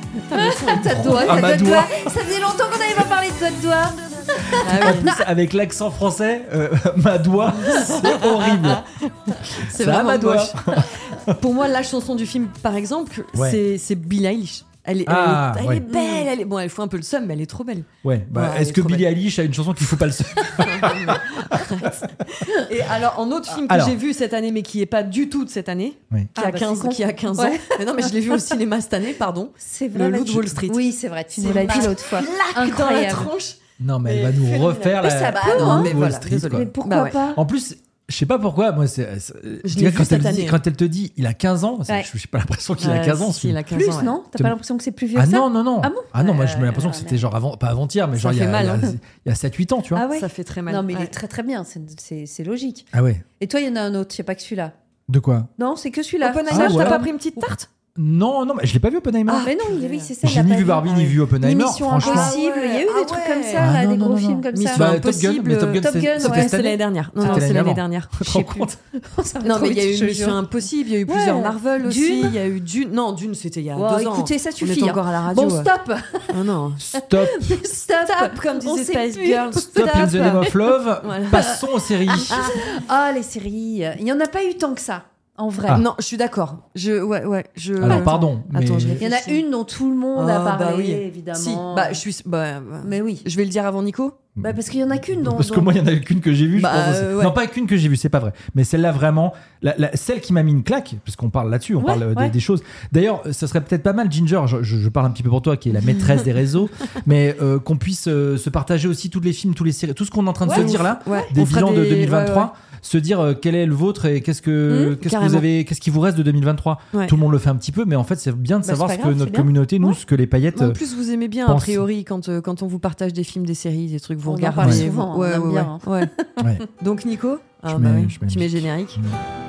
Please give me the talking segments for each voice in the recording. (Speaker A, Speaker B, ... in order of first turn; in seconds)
Speaker A: 0.3-1.6, 4.6-5.1, 7.7-19.1, 20.6-30.8, 31.3-37.2, 39.6-40.6, 42.8-44.2, 46.4-46.7, 48.2-48.9, 50.1-51.2, 56.2-57.7, 59.3-60.1, 62.0-63.8, 64.5-68.2, 69.4-75.7, 76.3-76.9, 78.0-81.5, 82.2-82.8, 85.7-89.4, 90.1-94.2, 96.5-97.3, 105.9-106.2, 110.5-112.5, 115.0-115.5, 120.5-126.1, 126.8-129.0
Speaker B: 0.3-5.2, 15.9-16.3, 26.4-28.4, 29.6-33.3, 35.0-36.0, 36.5-37.4, 43.7-47.3, 50.0-52.9, 53.4-54.8, 55.6-57.1, 59.4-64.9, 65.8-66.5, 67.2-67.6, 68.2-70.5, 71.1-72.4, 73.8-76.4, 77.0-80.4, 82.1-85.8, 87.9-88.3, 89.0-92.0, 92.8-93.2, 94.4-95.7, 101.8-102.3, 110.4-111.3, 118.7-120.0, 124.2-126.4
Speaker C: 0.8-2.1, 4.7-8.8, 9.6-11.4, 13.3-13.6, 15.1-15.8, 18.0-21.6, 23.6-24.0, 33.8-36.7, 37.3-43.6, 45.1-50.0, 52.9-53.2, 55.1-55.5, 56.5-57.1, 58.0-59.5, 60.2-62.3, 63.6-68.8, 76.8-77.6, 79.7-82.5, 87.8-89.0, 94.4-120.8, 121.5-121.8, 124.6-124.9, 126.4-126.7, 127.7-129.2